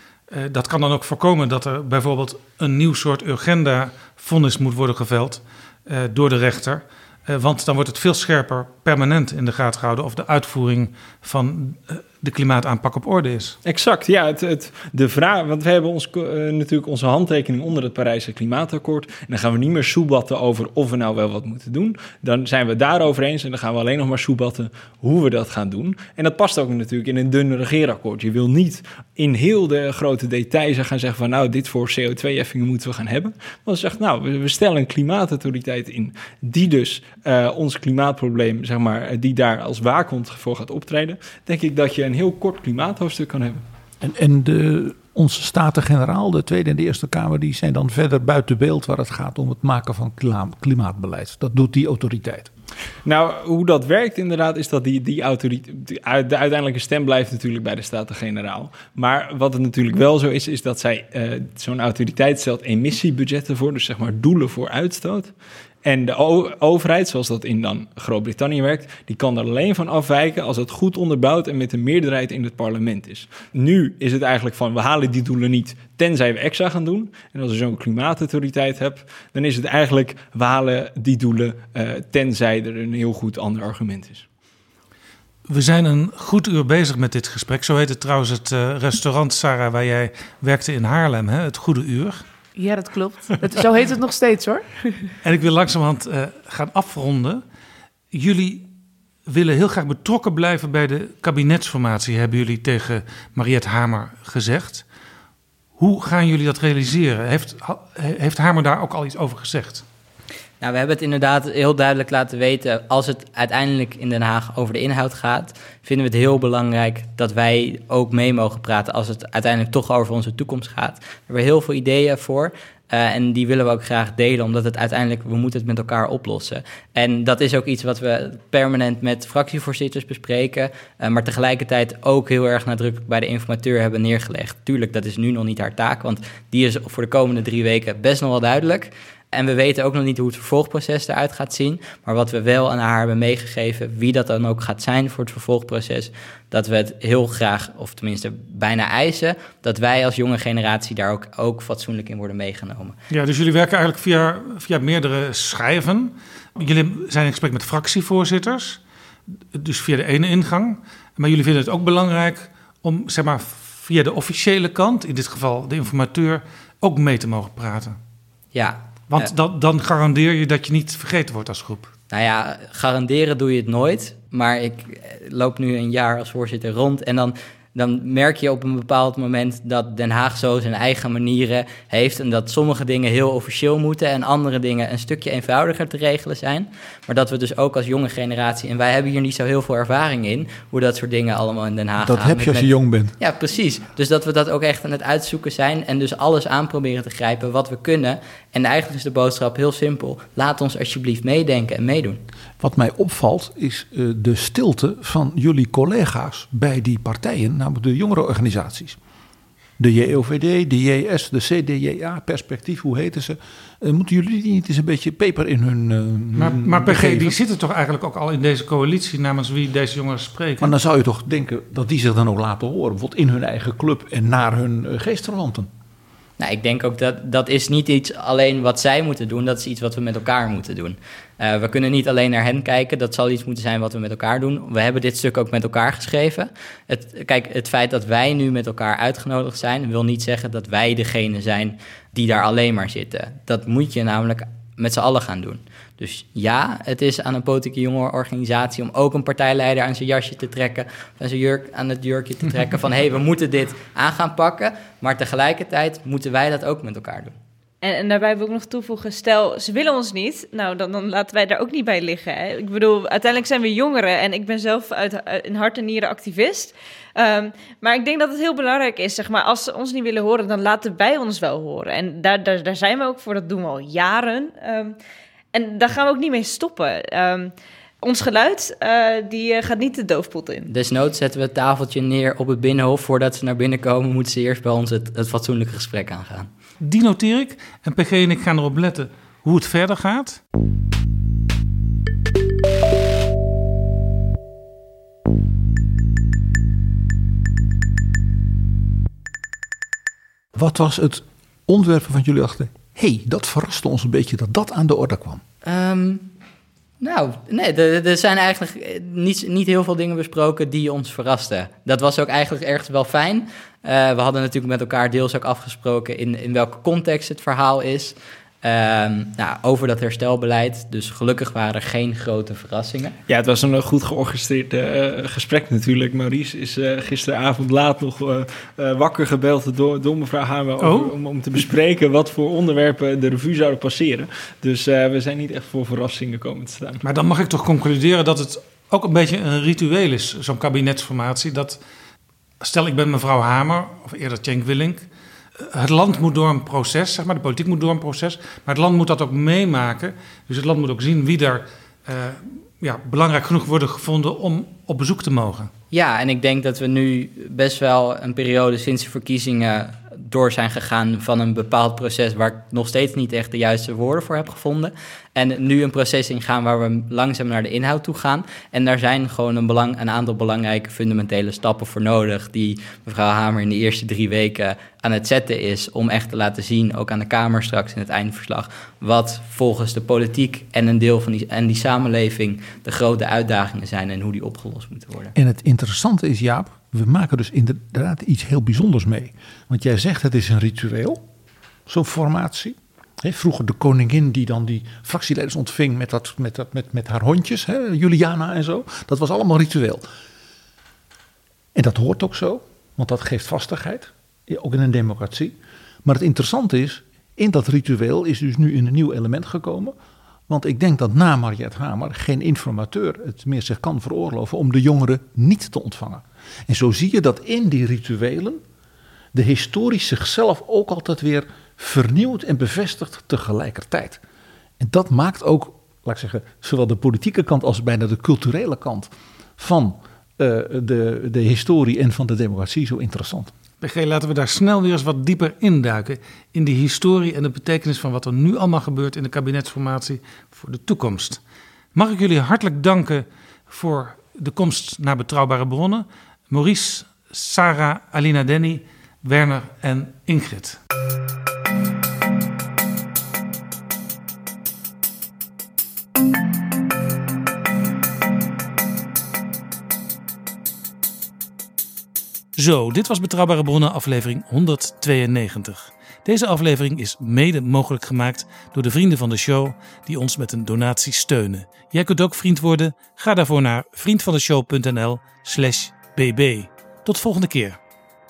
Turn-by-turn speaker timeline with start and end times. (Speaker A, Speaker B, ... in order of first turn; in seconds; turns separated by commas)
Speaker A: 0.3-13.6, Speaker B: 13.6-43.6, Speaker C: 44.0-52.5, Speaker B: 53.0-65.3, Speaker B: 65.8-84.3, Speaker A: 85.5-92.2, Speaker D: 92.5-95.1, Speaker A: 95.2-97.4, Speaker A: 98.1-98.6, Speaker A: 99.3-104.8, Speaker A: 105.8-109.8, Speaker E: 110.6-152.9, Speaker A: 153.1-158.8, Speaker A: 159.5-167.9, Speaker E: 168.5-169.3, Speaker A: 169.1-171.9, Speaker E: 172.1-202.2, Speaker C: 192.0-193.1, Speaker C: 202.6-209.0, Speaker C: 209.8-217.4, Speaker A: 216.4-220.7, Speaker C: 220.6-225.7, Speaker E: 226.4-257.4, Speaker F: 257.8-275.0, Speaker F: 275.5-280.7, Speaker E: 280.7-286.5, Speaker A: 286.8-290.4, Speaker C: 300.6-305.4, Speaker E: 305.6-306.3, Speaker E: 307.0-323.2, Speaker B: 323.3-337.0, Speaker A: 330.8-331.1, Speaker A: 337.0-341.8, Speaker A: 342.6-345.0, Speaker A: 345.6-355.7, Speaker E: 355.9-385.3, Speaker C: 385.4-391.2, Speaker C: 391.9-400.1, Speaker C: 401.7-409.9, Speaker C: 410.5-418.6, Speaker C: 419.3-424.2, Speaker C: 424.8-433.5, Speaker A: 433.8-441.4, Speaker A: 441.9-450.8, Speaker A: 462.6-477.8